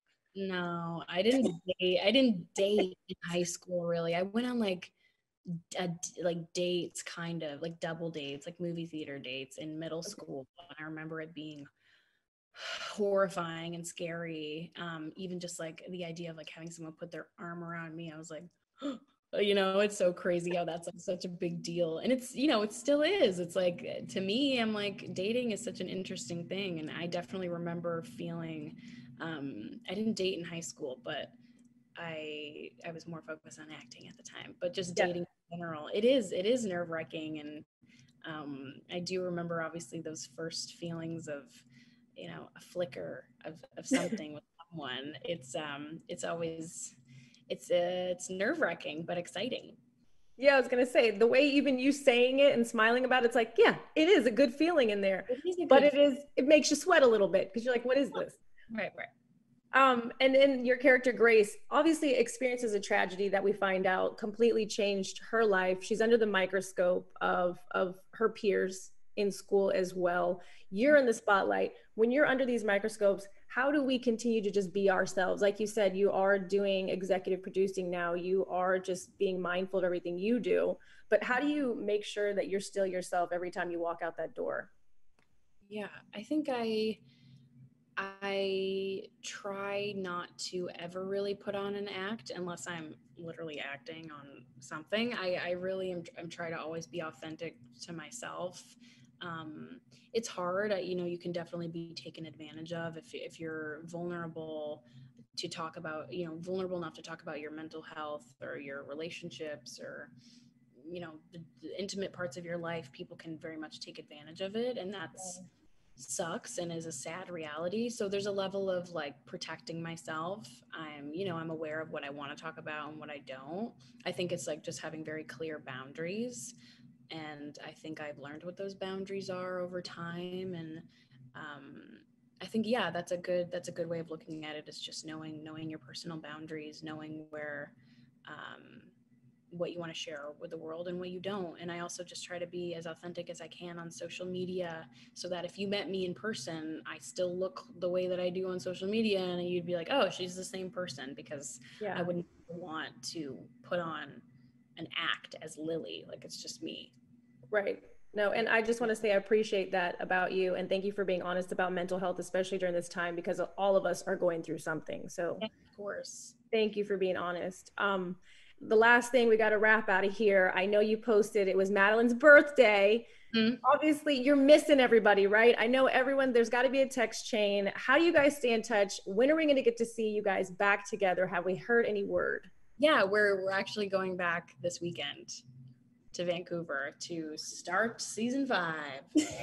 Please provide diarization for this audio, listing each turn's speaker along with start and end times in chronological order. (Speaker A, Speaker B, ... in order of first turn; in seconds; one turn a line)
Speaker A: 0.3-4.9
Speaker A: 5.5-11.7
Speaker A: 12.6-31.3
Speaker A: 32.0-37.6
Speaker A: 38.2-41.6
Speaker A: 42.2-47.0
Speaker A: 47.5-49.8
Speaker B: 50.4-58.4
Speaker A: 55.3-55.9
Speaker A: 58.7-59.1
Speaker B: 59.7-84.7
Speaker A: 85.7-87.0
Speaker A: 88.0-104.8
Speaker A: 105.4-110.1
Speaker A: 110.8-115.4
Speaker A: 116.0-126.5
Speaker A: 127.1-137.7
Speaker A: 138.3-138.9
Speaker A: 139.5-154.2
Speaker B: 151.8-152.1
Speaker A: 154.8-156.9
Speaker B: 157.5-165.4
Speaker A: 165.4-166.3
Speaker B: 166.5-173.1
Speaker A: 173.3-173.6
Speaker B: 173.6-182.5
Speaker A: 182.8-185.4
Speaker A: 186.1-189.1